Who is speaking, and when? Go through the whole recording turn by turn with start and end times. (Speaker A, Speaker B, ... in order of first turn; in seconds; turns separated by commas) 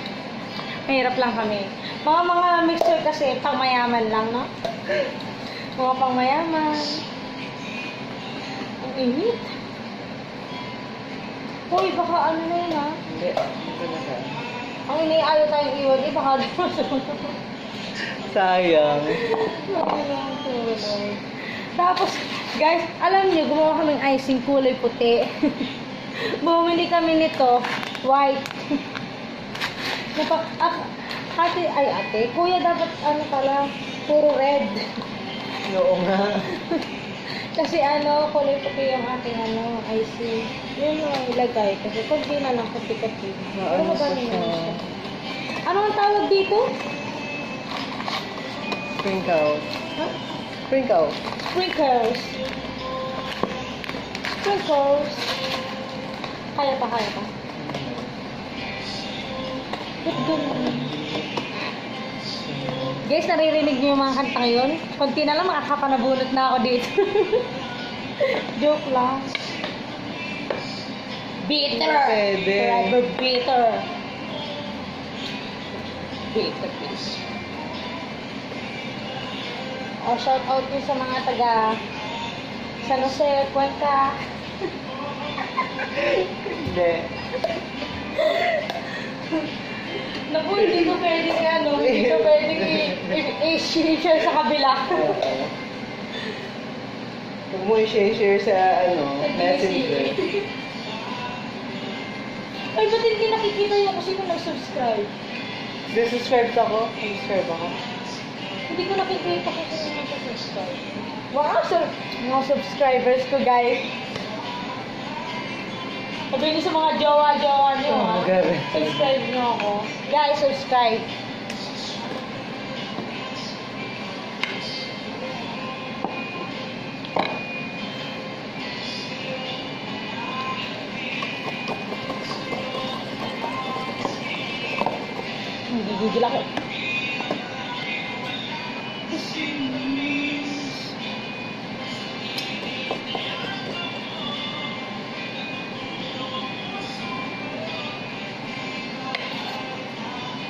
Speaker A: 0.9-5.0, Speaker A: 5.8-7.0, Speaker A: 8.8-9.6, Speaker A: 11.7-13.0, Speaker B: 13.1-14.4, Speaker A: 14.9-17.4, Speaker B: 18.1-19.2, Speaker A: 19.1-28.8, Speaker A: 30.1-34.9, Speaker B: 35.7-36.5, Speaker A: 37.3-44.8, Speaker B: 43.5-44.8, Speaker A: 45.5-46.7, Speaker B: 49.0-49.7, Speaker B: 50.7-51.2, Speaker A: 51.4-52.4, Speaker A: 54.2-55.4, Speaker A: 56.5-57.3, Speaker B: 57.6-58.1, Speaker A: 60.0-61.0, Speaker B: 60.3-61.0, Speaker B: 62.4-63.0, Speaker A: 63.0-67.5, Speaker A: 68.2-69.3, Speaker A: 71.4-73.9, Speaker B: 71.7-73.0, Speaker A: 76.3-77.2, Speaker A: 80.0-81.8, Speaker A: 82.8-84.2, Speaker B: 86.5-87.1, Speaker A: 88.2-88.8, Speaker A: 89.9-95.2, Speaker B: 90.6-91.0, Speaker B: 91.8-93.2, Speaker B: 94.9-95.5, Speaker B: 97.5-100.2, Speaker A: 99.2-100.1, Speaker A: 102.7-105.1, Speaker B: 105.9-107.8, Speaker A: 108.7-113.9, Speaker A: 116.3-121.1, Speaker B: 117.8-119.2, Speaker A: 135.7-136.5, Speaker A: 139.3-140.0